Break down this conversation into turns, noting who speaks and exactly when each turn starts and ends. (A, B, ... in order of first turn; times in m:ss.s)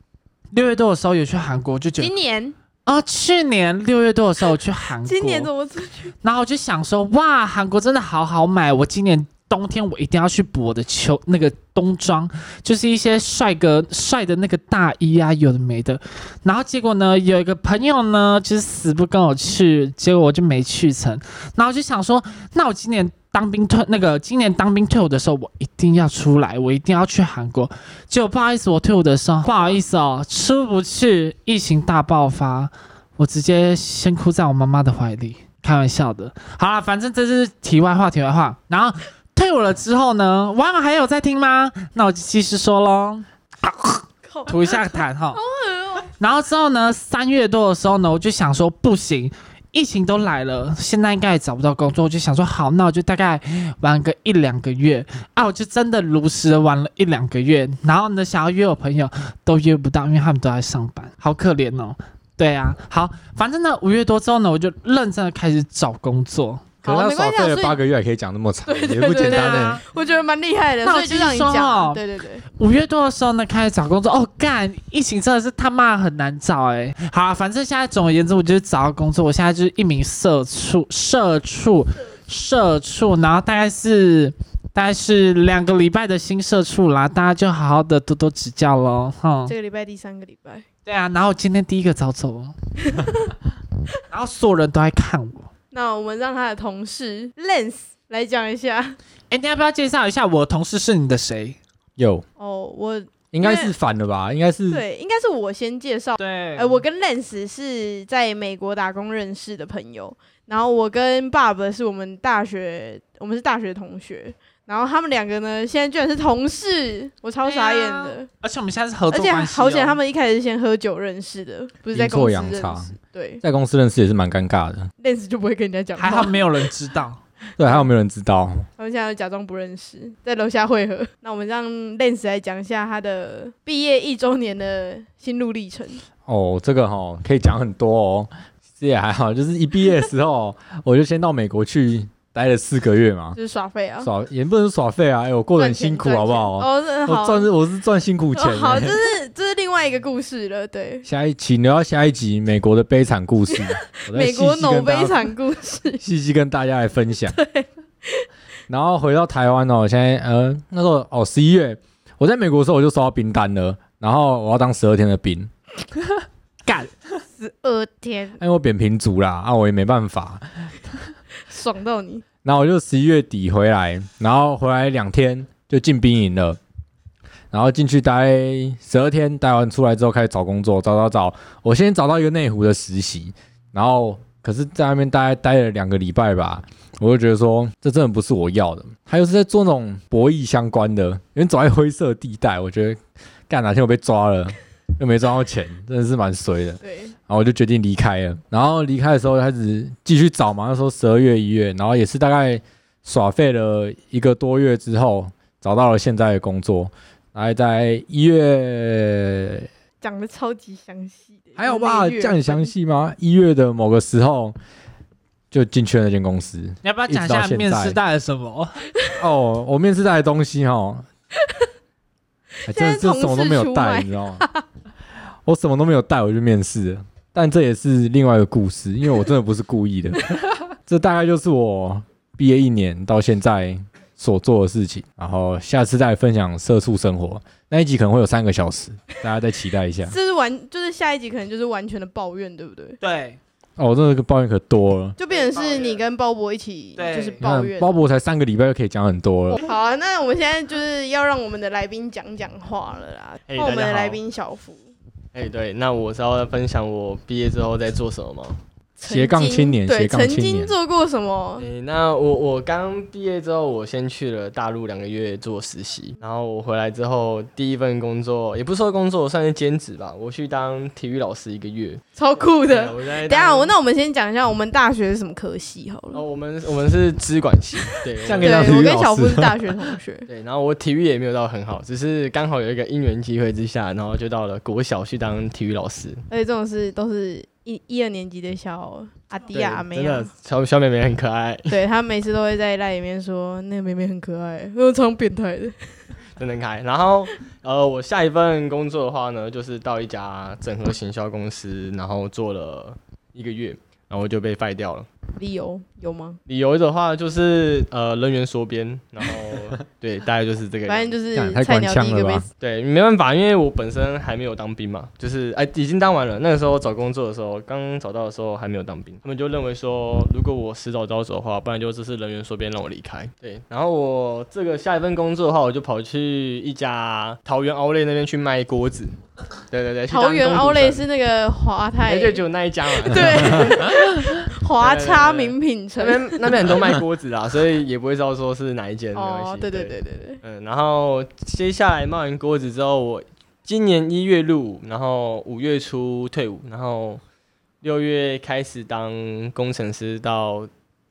0:00.5-0:02.1 A
0:02.0-0:02.6 B
0:02.8-0:05.5 A
0:05.0-0:06.1 B
0:06.2-0:45.4 A
0:29.4-0:29.8 B
0:44.2-0:46.1 B
0:46.2-1:06.6 A
1:06.8-1:07.8 B
1:06.8-1:09.8 C
1:08.6-1:12.4 B
1:09.1-1:09.8 A
1:10.8-1:12.0 A
1:12.6-1:29.5 A
1:29.5-1:30.6 B
1:30.8-1:32.5 A
1:34.1-1:35.5 A
1:35.7-1:39.0 B
1:39.3-1:41.6 A
1:42.0-1:42.2 C
1:42.4-1:43.7 B
1:43.3-1:44.8 C
1:44.7-1:58.3 B
1:46.2-1:46.8 A
1:57.4-2:00.0 A
1:59.1-2:03.4 B
2:01.9-2:04.9 C
2:05.0-2:06.4 B
2:06.0-2:07.2 A
2:07.6-2:08.6 C
2:08.8-2:16.0 B
2:16.2-2:23.4 C
2:23.4-2:24.1 B
2:24.0-2:28.9 C
2:25.6-2:27.5 B
2:28.4-2:31.1 B
2:31.0-2:35.3 C
2:33.6-2:36.0 B
2:36.0-2:37.4 C
2:37.3-2:38.2 B
2:38.7-2:45.5 C
2:46.6-2:46.9 A
2:47.3-2:48.4 B
2:48.4-2:50.5 C
2:51.5-2:52.2 B
2:52.4-2:56.6 C
2:57.5-3:29.7 C
3:16.8-3:17.1 B
3:30.0-3:32.7 B
3:31.6-3:34.6 C
3:35.5-3:38.0 C
3:36.8-3:38.8 A
3:39.2-3:41.0 C
3:42.6-3:44.4 C
3:42.6-3:44.6 B
3:45.4-3:50.3 C
3:50.9-4:00.1 C
4:00.0-4:03.0 B
4:03.0-4:03.4 A
4:03.8-4:05.2 C
4:05.2-4:07.9 B
4:05.3-4:06.0 D
4:07.0-4:07.4 A
4:07.4-4:09.6 C
4:09.5-4:14.9 B
4:13.5-4:14.2 D
4:15.3-4:18.6 D
4:19.0-4:21.6 B
4:19.1-4:20.7 C
4:21.6-4:33.8 D
4:32.2-4:36.2 B
4:36.1-4:38.8 D
4:38.2-4:39.6 C
4:38.4-4:40.3 B
4:40.3-4:46.2 D
4:46.3-4:50.3 B
4:49.5-4:51.8 D
4:51.7-4:55.9 B
4:56.4-5:05.1 D
5:05.4-5:06.4 B
5:06.5-5:11.2 D
5:10.9-5:12.5 B
5:11.3-5:12.4 C
5:12.6-5:29.1 D
5:29.7-5:31.0 D
5:30.1-5:36.7 B
5:32.0-5:47.2 D
5:39.1-5:40.4 B
5:47.8-5:50.7 D